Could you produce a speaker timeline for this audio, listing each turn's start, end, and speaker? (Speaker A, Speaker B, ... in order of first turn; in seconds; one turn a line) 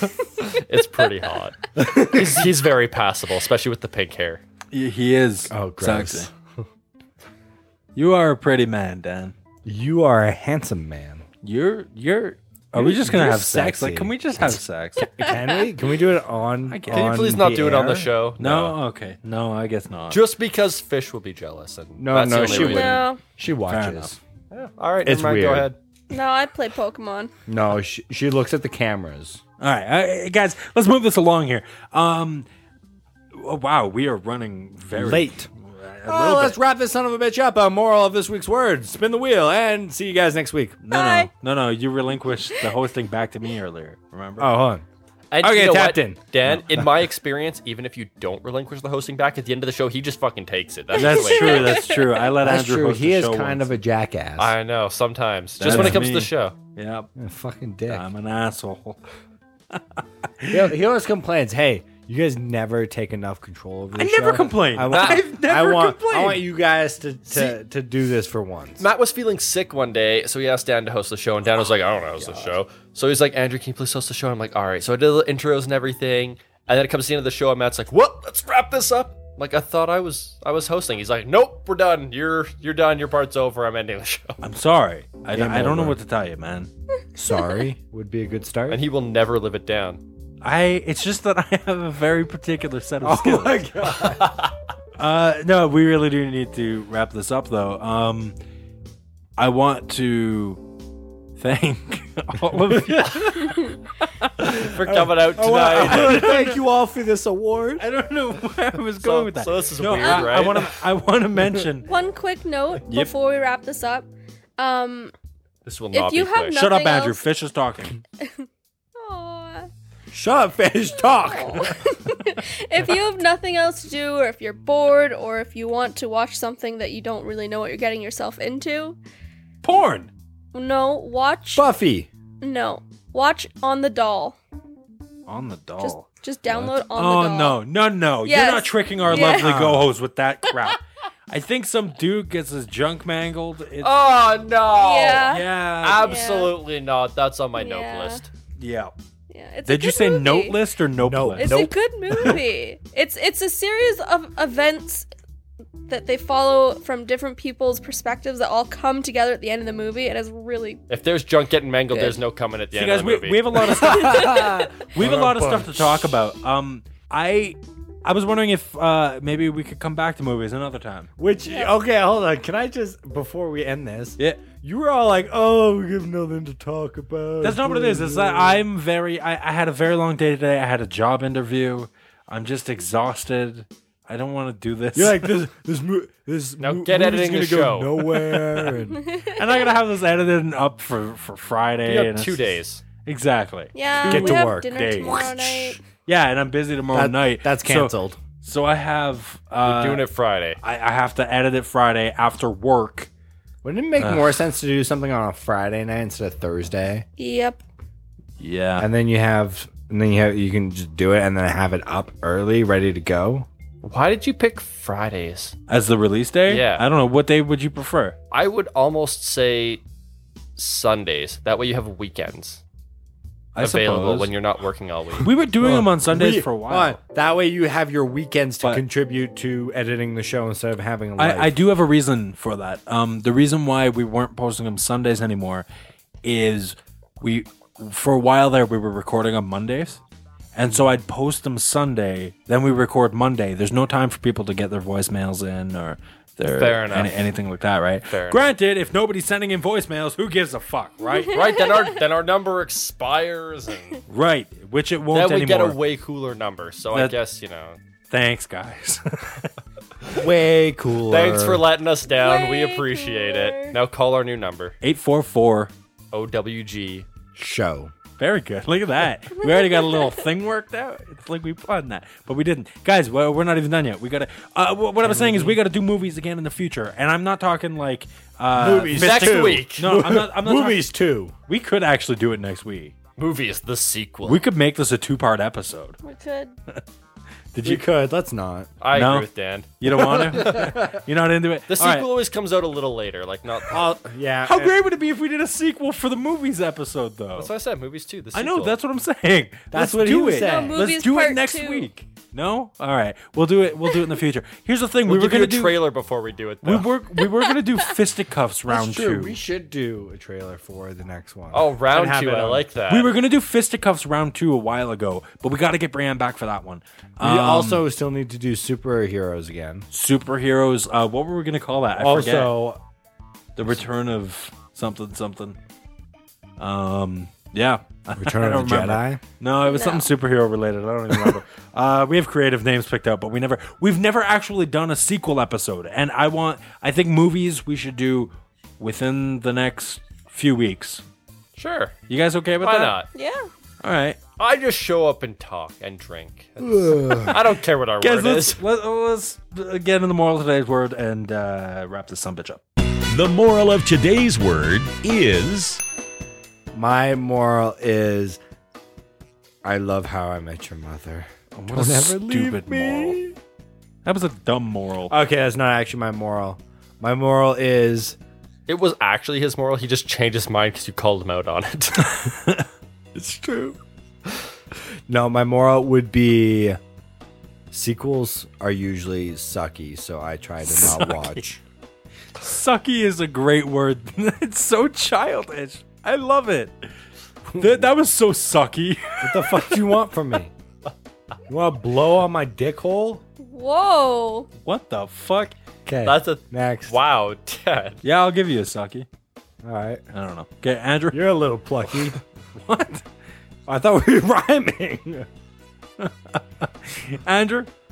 Speaker A: 0.6-4.4
Speaker B: 1.8-2.3
Speaker C: 4.7-6.3
Speaker B: 5.5-6.3
Speaker C: 8.0-9.3
Speaker B: 9.7-11.2
Speaker C: 11.4-15.3
Speaker B: 12.8-14.4
Speaker B: 15.2-18.1
Speaker C: 16.7-17.3
Speaker A: 16.9-18.8
Speaker C: 18.4-20.2
Speaker A: 20.1-23.1
Speaker B: 22.0-24.2
Speaker D: 22.4-23.2
Speaker C: 23.7-24.1
Speaker A: 24.5-25.8
Speaker B: 25.0-25.7
Speaker D: 26.1-27.3
Speaker B: 27.5-29.4
Speaker C: 29.6-32.5
Speaker C: 33.3-36.6
Speaker B: 34.9-35.5
Speaker B: 36.1-40.8
Speaker C: 40.8-44.5
Speaker D: 40.9-41.3
Speaker B: 44.4-44.9
Speaker A: 45.3-51.9
Speaker B: 45.4-46.2
Speaker D: 50.9-52.1
Speaker C: 50.9-53.8
Speaker B: 52.4-54.5
Speaker A: 54.4-56.6
Speaker C: 55.6-57.1
Speaker B: 55.6-56.1
Speaker B: 57.2-58.0
Speaker C: 57.9-59.0
Speaker C: 59.7-60.6
Speaker B: 60.5-68.8
Speaker C: 64.0-66.5
Speaker A: 64.9-65.2
Speaker A: 68.8-84.4
Speaker B: 72.2-72.5
Speaker C: 84.4-86.7
Speaker B: 85.3-86.0
Speaker B: 87.2-88.8
Speaker A: 88.7-90.0
Speaker C: 90.4-93.6
Speaker B: 93.0-94.4
Speaker A: 94.0-94.5
Speaker C: 95.0-98.4
Speaker C: 99.4-100.6
Speaker C: 101.4-103.7
Speaker A: 104.5-106.4
Speaker B: 104.9-107.8
Speaker C: 105.7-106.6
Speaker C: 107.8-111.9
Speaker A: 109.0-110.8
Speaker D: 110.0-110.3
Speaker D: 111.9-115.1
Speaker C: 112.8-113.1
Speaker A: 115.7-116.6
Speaker D: 115.9-117.2
Speaker C: 116.5-118.0
Speaker D: 119.0-119.7
Speaker B: 120.1-122.0
Speaker D: 121.2-129.0
Speaker C: 129.6-130.1
Speaker D: 130.5-131.7
Speaker B: 131.6-132.1
Speaker D: 132.4-134.4
Speaker C: 135.3-143.9
Speaker D: 135.8-137.6
Speaker D: 138.2-139.8
Speaker B: 139.3-139.8
Speaker A: 143.8-148.3
Speaker D: 144.8-146.6
Speaker C: 145.2-146.2
Speaker D: 147.6-148.2
Speaker C: 148.6-148.9
Speaker D: 149.3-150.6
Speaker C: 149.7-151.7
Speaker B: 151.0-151.7
Speaker D: 151.4-155.1
Speaker D: 155.9-160.8
Speaker A: 160.9-163.6
Speaker D: 161.9-162.2
Speaker C: 162.7-171.1
Speaker D: 163.8-164.7
Speaker B: 163.9-166.1
Speaker B: 171.2-178.7
Speaker D: 171.5-171.7
Speaker C: 177.4-185.4
Speaker B: 184.9-189.0
Speaker A: 186.6-188.0
Speaker C: 188.2-188.7
Speaker C: 189.3-192.5
Speaker A: 191.9-192.8
Speaker C: 193.1-200.1
Speaker D: 193.7-195.8
Speaker B: 194.0-195.3
Speaker B: 196.9-198.2
Speaker A: 199.6-200.6
Speaker C: 200.6-203.1
Speaker B: 203.6-207.1
Speaker C: 204.0-204.4
Speaker D: 207.2-207.6
Speaker C: 208.4-208.9
Speaker B: 208.8-213.5
Speaker A: 213.8-215.6
Speaker C: 215.7-218.2
Speaker A: 216.5-216.8
Speaker A: 218.3-219.8
Speaker A: 220.6-222.6
Speaker C: 223.6-224.3
Speaker A: 223.6-225.3
Speaker C: 225.2-227.0
Speaker B: 225.6-231.6
Speaker C: 231.2-235.7
Speaker C: 236.2-240.0
Speaker C: 240.6-251.4
Speaker A: 246.5-247.2
Speaker A: 248.1-248.4
Speaker A: 251.3-254.0
Speaker D: 251.3-251.7
Speaker C: 254.1-255.8
Speaker A: 255.1-257.8
Speaker C: 258.1-259.5
Speaker B: 260.1-261.6
Speaker A: 261.1-264.8
Speaker D: 262.1-263.8
Speaker C: 264.8-265.7
Speaker A: 266.1-267.1
Speaker B: 267.4-267.9
Speaker C: 268.2-280.9
Speaker D: 269.6-270.1
Speaker B: 275.0-275.6
Speaker B: 278.5-281.4
Speaker A: 279.0-279.8
Speaker C: 281.5-282.9
Speaker A: 283.2-284.4
Speaker C: 284.2-286.0
Speaker D: 286.0-286.6
Speaker C: 287.5-287.9
Speaker B: 287.6-288.7
Speaker A: 288.8-290.7
Speaker C: 288.9-289.3
Speaker C: 289.8-292.1
Speaker B: 290.1-291.0
Speaker A: 291.7-293.9
Speaker B: 293.7-294.8
Speaker C: 294.4-297.5
Speaker A: 297.4-298.8
Speaker C: 298.3-305.8
Speaker B: 299.7-300.9
Speaker D: 300.4-301.9
Speaker A: 305.1-306.9
Speaker C: 306.6-309.4
Speaker B: 308.7-312.7
Speaker A: 311.5-313.2
Speaker C: 312.9-317.9
Speaker B: 317.2-319.9
Speaker C: 319.9-322.6
Speaker B: 322.0-322.8
Speaker C: 323.6-325.6
Speaker C: 326.6-341.0
Speaker B: 328.1-329.2
Speaker D: 329.6-330.1
Speaker B: 331.1-331.4
Speaker A: 341.6-342.0
Speaker C: 342.1-343.0
Speaker A: 342.6-343.1
Speaker D: 343.1-343.5
Speaker C: 343.8-344.2
Speaker A: 344.4-348.6
Speaker B: 346.6-347.4
Speaker C: 348.0-352.6
Speaker E: 353.1-355.8
Speaker B: 356.7-358.4
Speaker B: 359.6-363.4
Speaker C: 361.5-363.2
Speaker C: 364.1-365.1
Speaker B: 365.1-368.2
Speaker A: 368.7-372.3
Speaker C: 372.2-372.6
Speaker B: 373.1-373.8
Speaker B: 375.1-376.8
Speaker B: 377.7-381.6
Speaker C: 380.7-381.4
Speaker C: 382.4-386.9
Speaker B: 387.5-387.9
Speaker C: 387.6-389.9
Speaker B: 389.2-390.5
Speaker B: 391.5-393.2
Speaker D: 393.4-394.5
Speaker C: 394.6-395.6
Speaker B: 395.9-397.0
Speaker A: 396.0-398.0
Speaker C: 398.0-399.1
Speaker B: 399.6-400.0
Speaker C: 400.1-401.3
Speaker B: 401.1-402.2
Speaker C: 402.6-403.1
Speaker B: 403.7-405.3
Speaker C: 406.0-407.7